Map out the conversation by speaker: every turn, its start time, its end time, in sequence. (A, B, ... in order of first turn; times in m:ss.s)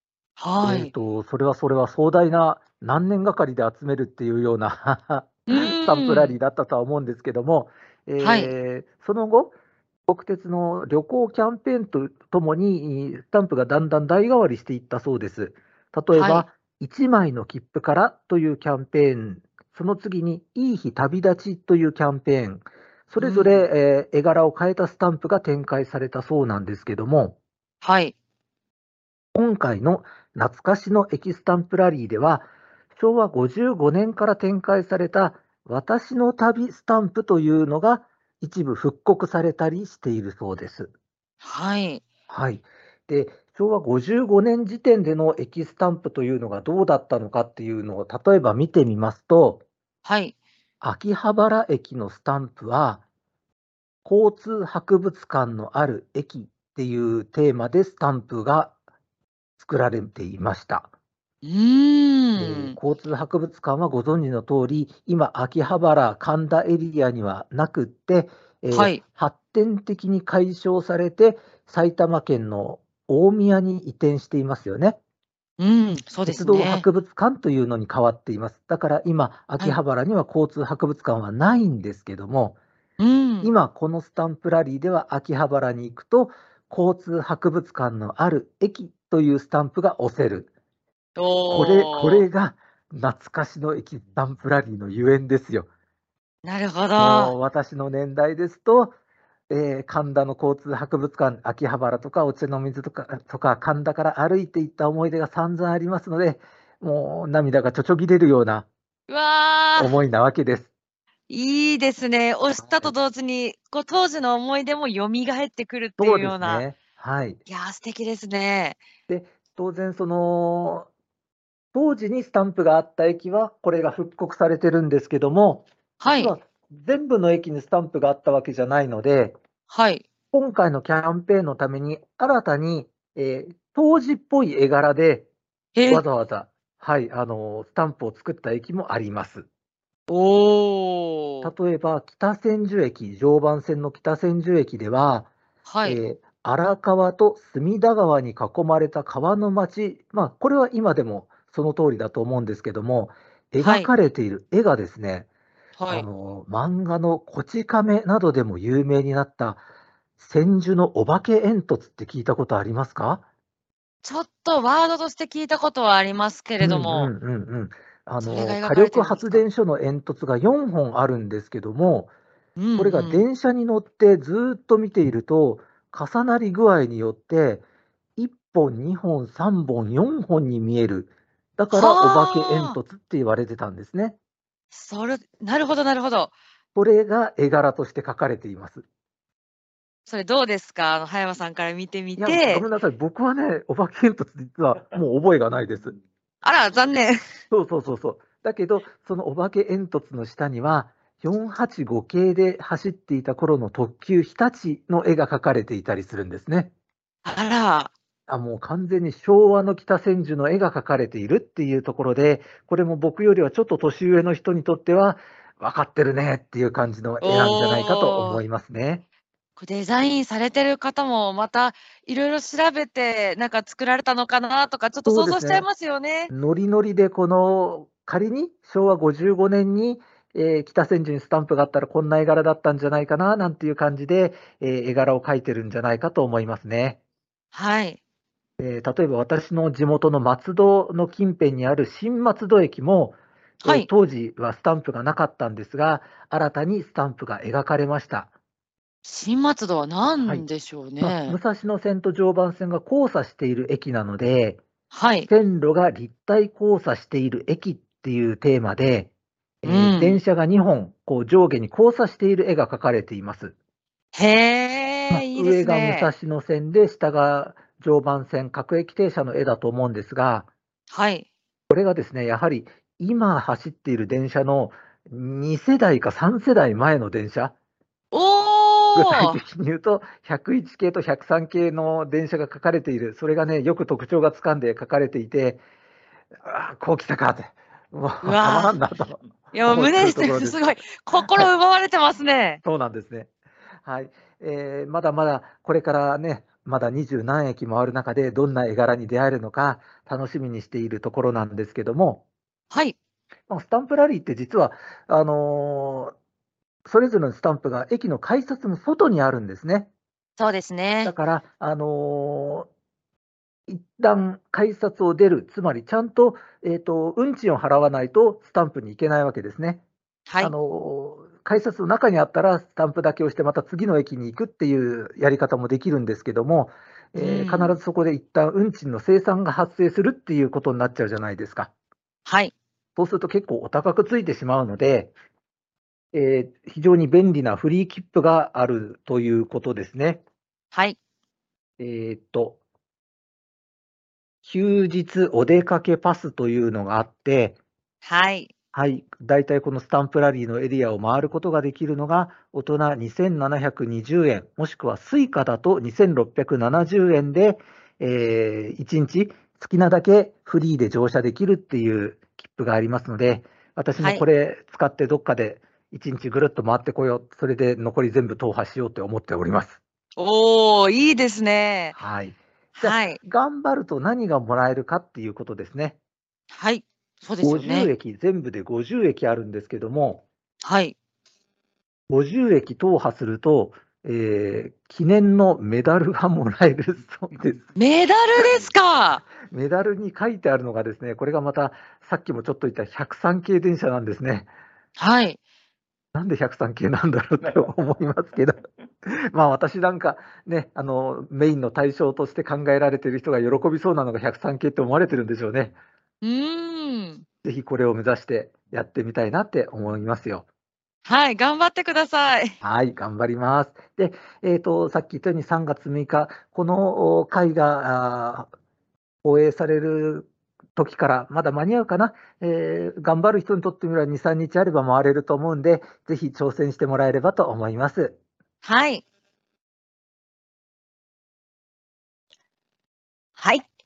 0:00.4-0:00.9 A
0:00.6-0:09.5 B
0:05.5-0:06.4 A
0:08.2-0:08.5 A
0:10.1-0:27.4 B
0:16.1-0:16.5 A
0:23.2-0:23.6 A
0:27.8-0:28.1 A
0:29.3-0:40.9 B
0:41.4-0:42.0 A
0:42.3-0:49.6 B
0:50.0-0:50.3 A
0:50.8-0:53.0 B
0:54.0-0:58.7 B
0:59.6-1:00.9 B
1:01.4-1:02.8 A
1:02.4-1:15.0 B
1:08.7-1:09.0 A
1:15.6-1:16.8 A
1:16.2-1:22.6 B
1:23.0-1:23.5 A
1:23.4-1:30.5 B
1:31.2-1:32.2 A
1:31.5-1:35.7 B
1:36.4-1:37.3 A
1:37.0-1:38.9 B
1:39.5-1:48.7 B
1:49.1-1:50.0 A
1:49.8-1:50.7 B
1:51.3-1:56.7 A
1:52.7-1:52.9 B
1:56.0-1:57.4 B
1:57.5-1:58.8 A
1:59.1-2:00.9 B
2:01.7-2:09.4 B
2:06.0-2:06.3 A
2:09.7-2:10.0 A
2:10.3-2:15.3 B
2:15.8-2:16.0 A
2:15.9-2:19.4 B
2:20.1-2:21.5 A
2:21.4-2:25.3 B
2:25.6-2:26.0 A
2:25.8-2:35.3 B
2:33.6-2:33.9 A
2:35.8-2:36.1 A
2:35.9-2:39.6 B
2:40.2-2:43.2 B
2:44.0-2:47.1 A
2:46.6-2:52.1 B
2:48.2-2:49.4 A
2:52.6-2:53.2 A
2:52.8-2:57.6 B
2:58.2-3:04.2 B
3:01.7-3:02.8 A
3:04.7-3:06.3 A
3:06.7-3:08.8 B
3:10.1-3:12.6 A
3:12.2-3:16.0 B
3:16.4-3:17.2 A
3:17.5-3:26.7 B
3:27.2-3:27.9 A
3:28.3-3:39.0 B
3:37.2-3:38.4 A
3:39.6-3:46.3 A
3:45.0-3:45.7 B
3:46.3-3:57.0 B
3:57.5-3:58.0 A
3:58.6-4:08.3 B
4:09.0-4:11.4 A
4:11.0-4:14.6 B
4:14.9-4:15.3 A
4:15.3-4:19.1 B
4:19.6-4:23.5 B
4:19.6-4:20.2 A
4:24.1-4:26.1 A
4:25.1-4:30.5 B
4:30.9-4:31.3 A
4:31.7-4:37.5 B
4:38.1-4:39.4 A
4:39.0-4:45.6 B
4:46.4-4:50.6 B
4:48.2-4:48.8 A
4:49.5-4:52.6 A
4:51.2-4:51.5 B
4:52.6-4:53.3 B
4:53.8-5:02.2 B
5:02.7-5:03.0 A
5:03.5-5:06.1 B
5:06.8-5:09.9 B
5:10.4-5:11.1 A
5:11.0-5:12.7 B
5:13.7-5:19.8 B
5:20.3-5:20.5 A
5:20.4-5:31.7 B
5:27.2-5:27.8 A
5:32.2-5:32.5 A
5:33.0-5:35.1 B
5:36.1-5:40.2 B
5:41.8-5:42.6 B
5:44.4-5:47.6 B
5:48.0-5:48.5 A
5:48.7-6:09.8 B
6:04.0-6:04.2 A
6:10.2-6:12.0 A
6:11.9-6:16.0 B
6:12.8-6:13.2 A
6:16.5-6:17.9 A
6:17.4-6:20.2 B
6:20.6-6:21.0 A
6:22.1-6:27.7 B
6:27.7-6:29.2 A
6:29.5-6:34.5 B
6:35.0-6:35.4 A
6:36.1-6:38.5 B
6:39.0-6:45.8 B
6:46.2-6:47.2 A
6:47.4-6:50.4 B
6:51.0-6:52.5 A
6:52.6-6:58.5 B
6:59.2-7:08.2 B
7:08.6-7:09.0 A
7:13.4-7:13.6 A